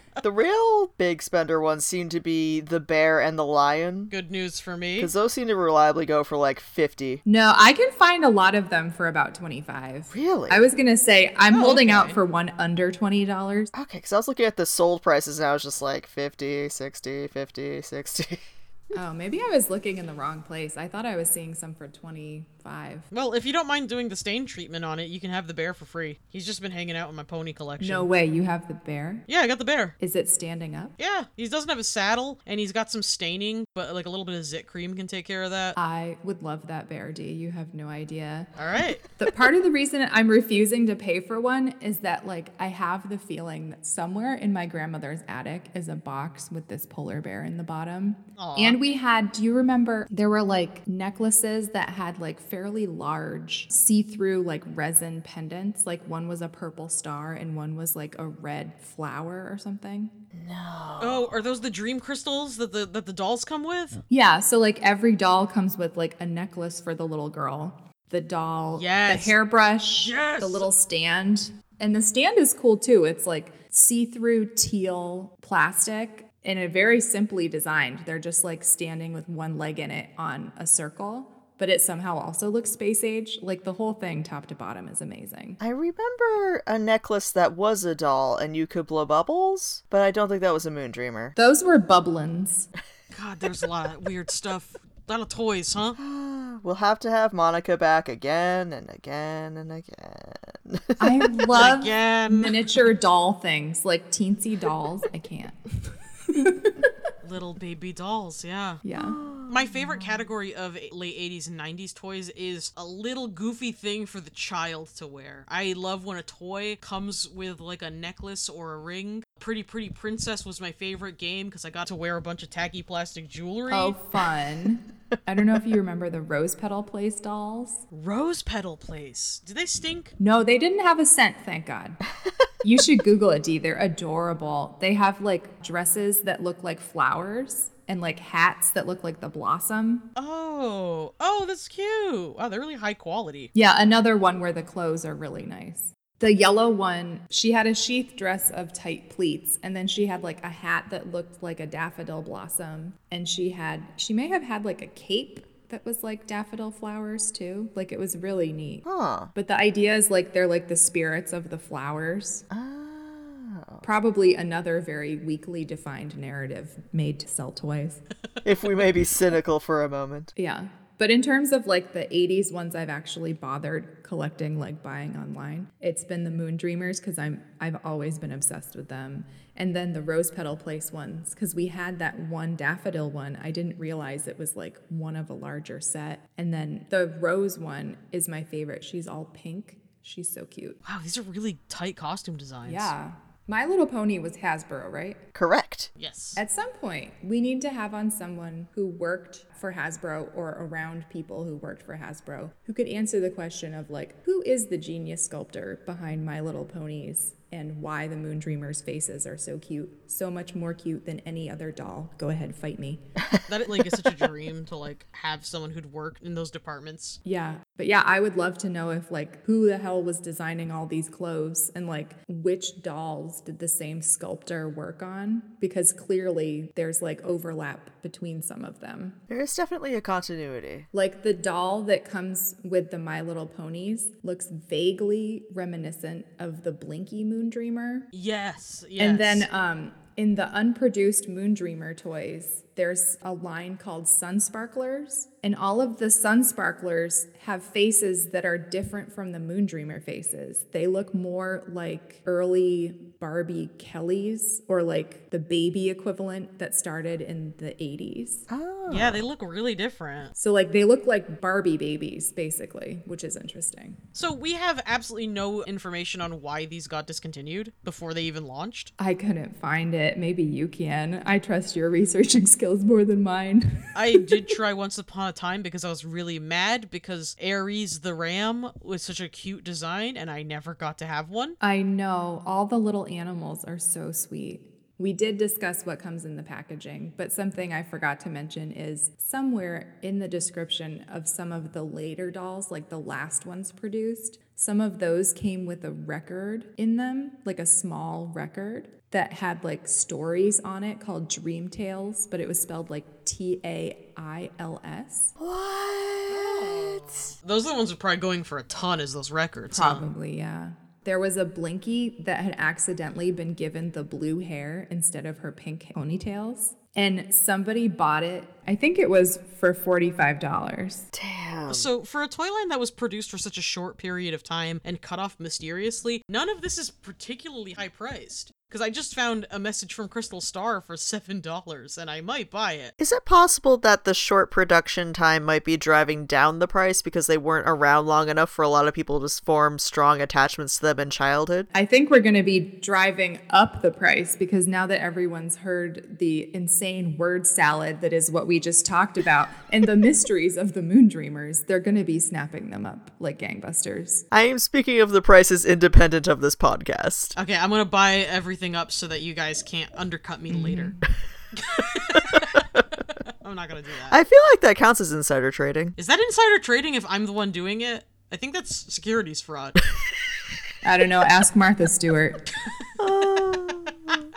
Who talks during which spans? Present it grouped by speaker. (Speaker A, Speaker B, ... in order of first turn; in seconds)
Speaker A: 0.2-4.1, 5.0-7.2, 10.1-10.6, 13.7-18.4, 60.3-61.3, 85.6-91.3, 96.0-101.4, 108.9-110.0, 158.8-159.3, 162.5-163.8, 168.4-170.3, 195.3-195.9, 229.3-230.9, 258.5-259.2, 305.4-307.3, 321.1-321.9, 333.0-341.7, 354.3-357.4, 364.1-365.9, 373.0-374.3
Speaker B: 4.1-5.1, 11.5-12.2, 23.1-28.1, 29.3-29.9, 31.0-35.8, 38.5-39.0, 48.4-48.8, 61.0-64.0, 68.7-69.3, 69.9-70.7, 93.1-96.0, 101.5-102.7, 107.2-108.8, 109.5-124.0, 127.9-130.1, 140.2-143.5, 190.8-192.9, 195.9-196.4, 213.5-217.2, 238.1-239.5, 258.9-260.3, 264.1-268.9, 273.9-281.6, 306.3-310.0, 321.7-332.9, 357.4-361.0, 361.6-362.8, 363.4-364.2, 366.0-369.8
Speaker C: 7.2-13.7, 18.9-23.1, 27.8-29.2, 30.0-30.9, 35.8-38.5, 39.1-60.1, 64.1-85.6, 91.3-92.7, 101.0-106.9, 108.8-109.2, 123.7-127.8, 130.2-132.0, 132.6-140.1, 143.5-162.4, 163.8-168.0, 170.3-190.8, 192.6-195.2, 196.3-213.0, 217.2-229.2, 230.9-238.1, 239.0-258.4, 260.4-264.0, 269.0-274.3, 281.6-305.3, 309.7-321.0, 341.7-354.2, 360.5-361.0, 370.8-372.4